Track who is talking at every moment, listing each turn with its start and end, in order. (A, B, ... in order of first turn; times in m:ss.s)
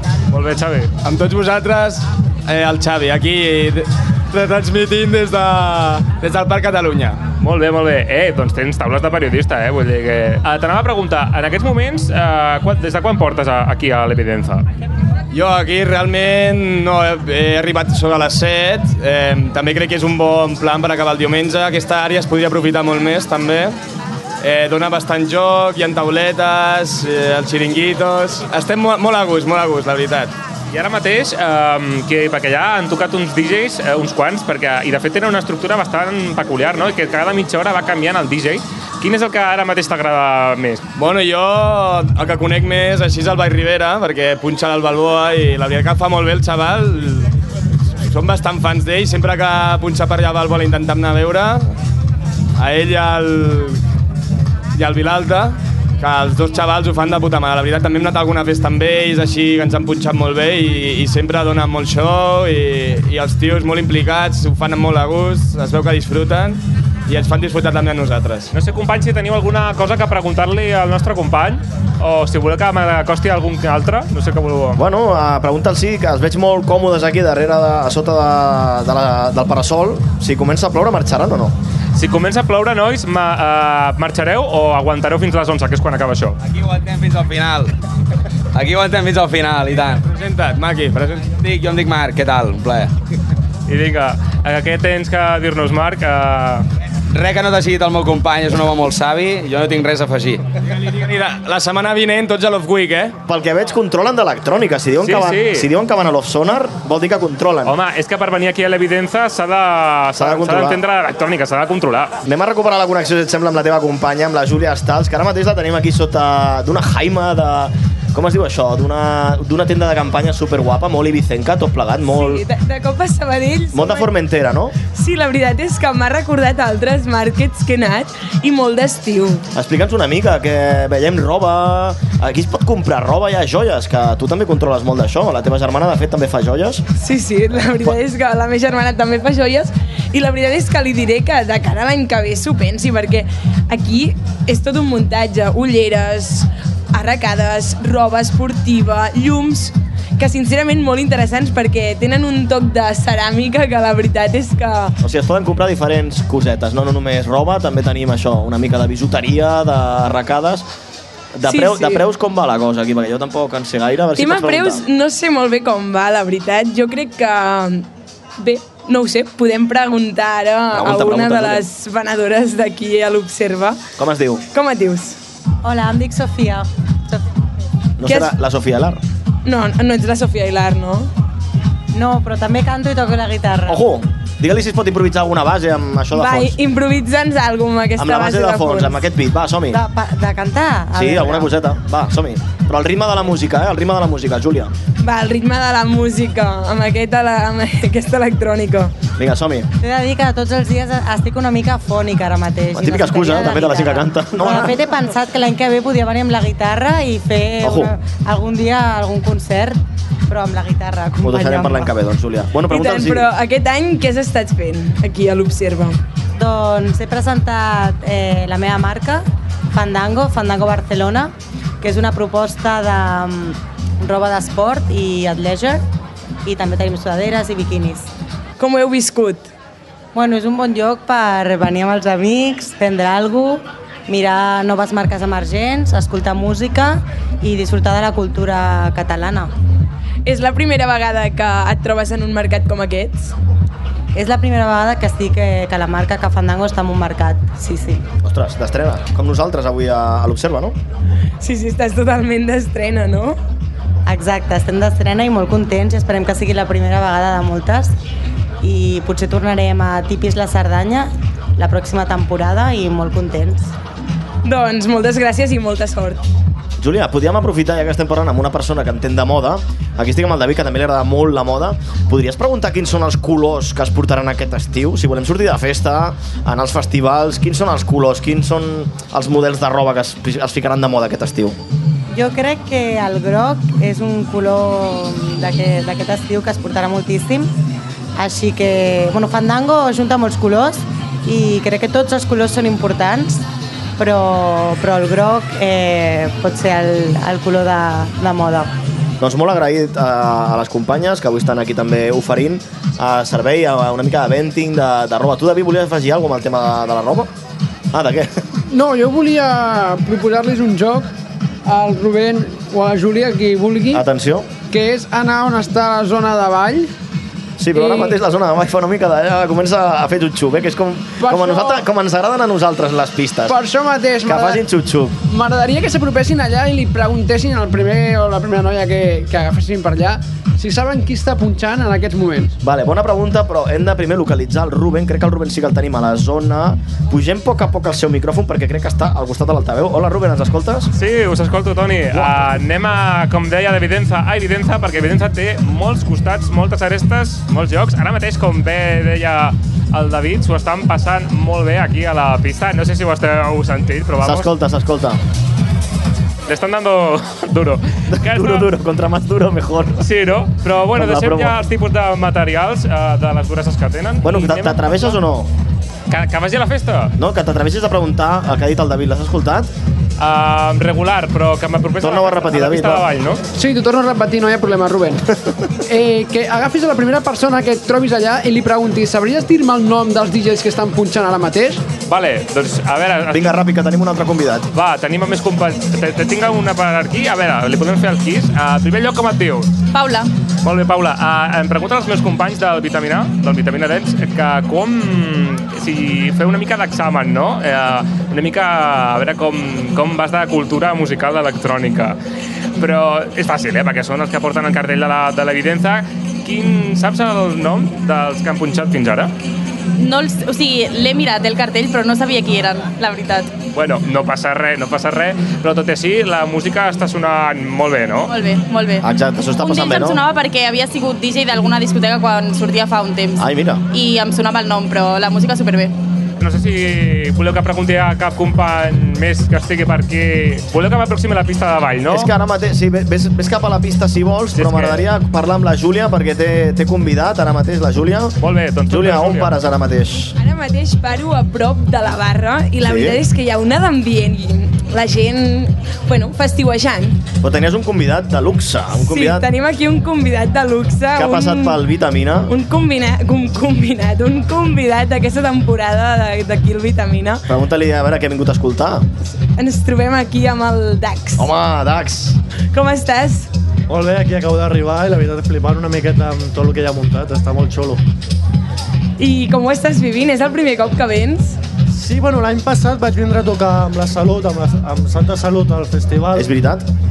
0:00.3-0:00.9 A
0:01.0-0:07.2 B
0:07.4-0:14.6 A
0:15.3-0:23.8 B
0:24.4-0:30.3 B
0:30.7-0:40.8 A
0:41.0-0:47.3 B
0:48.0-0:51.6 B
0:52.6-0:53.8 B
0:54.7-1:08.5 B
1:08.5-1:14.8 A
1:14.8-1:21.6 C
1:21.9-1:26.4 A
1:26.5-1:27.7 D
1:28.6-1:30.0 D
1:30.0-1:31.3 B
1:31.2-1:32.9 D
1:33.7-1:36.6 A
1:37.1-1:40.4 D
1:40.8-1:43.2 B
1:43.3-1:47.7 C
1:45.0-1:45.7 A
1:47.6-1:52.1 A
1:50.2-1:50.8 C
1:52.2-2:02.4 C
2:02.1-2:04.1 E
2:03.7-2:04.7 C
2:04.9-2:09.4 E
2:09.5-2:16.8 C
2:17.0-2:34.9 E
2:35.0-2:40.6 C
2:41.4-2:44.8 C
2:41.5-2:42.0 E
2:44.2-2:47.9 E
2:48.4-2:53.8 E
2:50.7-2:51.6 C
2:54.0-2:54.4 C
2:54.5-2:55.2 E
2:55.6-2:57.2 F
2:58.0-2:59.0 C
2:58.1-2:58.3 E
2:59.4-3:01.1 E
3:01.9-3:03.8 F
3:03.7-3:06.6 C
3:06.1-3:09.0 E
3:08.0-3:09.8 C
3:09.7-3:11.5 F
3:10.9-3:14.7 C
3:15.0-3:18.9 E
3:19.2-3:19.7 C
3:19.8-3:31.9 F
3:22.7-3:24.9 C
3:27.6-3:27.9 C
3:31.2-3:33.3 C
3:32.7-3:36.0 E
3:36.4-3:45.8 F
3:46.4-3:48.1 F
3:48.6-3:49.5 E
3:50.1-3:59.5 F
4:00.3-4:03.3 E
4:04.1-4:08.0 F
4:08.2-4:10.7 C
4:11.4-4:13.4 E
4:14.1-4:17.9 F
4:18.6-4:23.7 F
4:24.4-4:26.2 E
4:26.8-4:41.6 C
4:42.1-4:47.5 F
4:48.2-4:53.4 F
4:54.0-4:58.7 F
4:59.2-5:07.3 C
5:07.9-5:08.4 C
5:08.7-5:11.1 G
5:11.6-5:14.0 G
5:13.9-5:14.5 C
5:14.7-5:16.9 G
5:17.6-5:23.6 C
5:17.7-5:18.2 G
5:21.2-5:21.8 G
5:23.5-5:24.6 G
5:24.2-5:25.1 C
5:25.3-5:32.6 G
5:32.6-5:40.9 C
5:40.9-5:54.5 A
5:42.1-5:42.6 C
5:54.2-5:55.2 C
5:56.5-5:58.7 A
5:58.1-6:00.1 C
6:00.0-6:05.2 A
6:00.9-6:01.6 C
6:04.2-6:05.5 C
6:06.1-6:07.1 A
6:07.2-6:09.7 C
6:10.2-6:13.4 A
6:12.0-6:13.0 C
6:13.6-6:15.2 G
6:15.9-6:21.8 G
6:22.1-6:23.5 A
6:23.3-6:24.7 C
6:24.7-6:29.7 A
6:29.9-6:30.3 H
6:30.6-6:42.2 A
6:42.8-6:49.3 A
6:50.0-6:53.5 H
6:53.7-6:58.3 A
6:58.3-6:59.1 H
6:59.0-7:00.2 C
6:59.6-7:05.9 H
7:03.4-7:03.8 C
7:06.4-7:12.3 A
7:12.1-7:18.4 C
7:14.6-7:15.1 A
7:18.4-7:19.5 A
7:18.9-7:20.4 C
7:20.4-7:27.2 E
7:22.8-7:23.2 C
7:27.4-7:29.4 C
7:28.9-7:31.8 E
7:31.1-7:32.5 C
7:32.5-7:37.4 E
7:37.5-7:39.1 C
7:39.6-7:41.5 E
7:41.4-7:42.4 C
7:42.7-7:43.5 E
7:43.9-7:48.0 I
7:49.2-7:51.6 E
7:51.9-7:56.5 I
7:56.4-7:56.8 C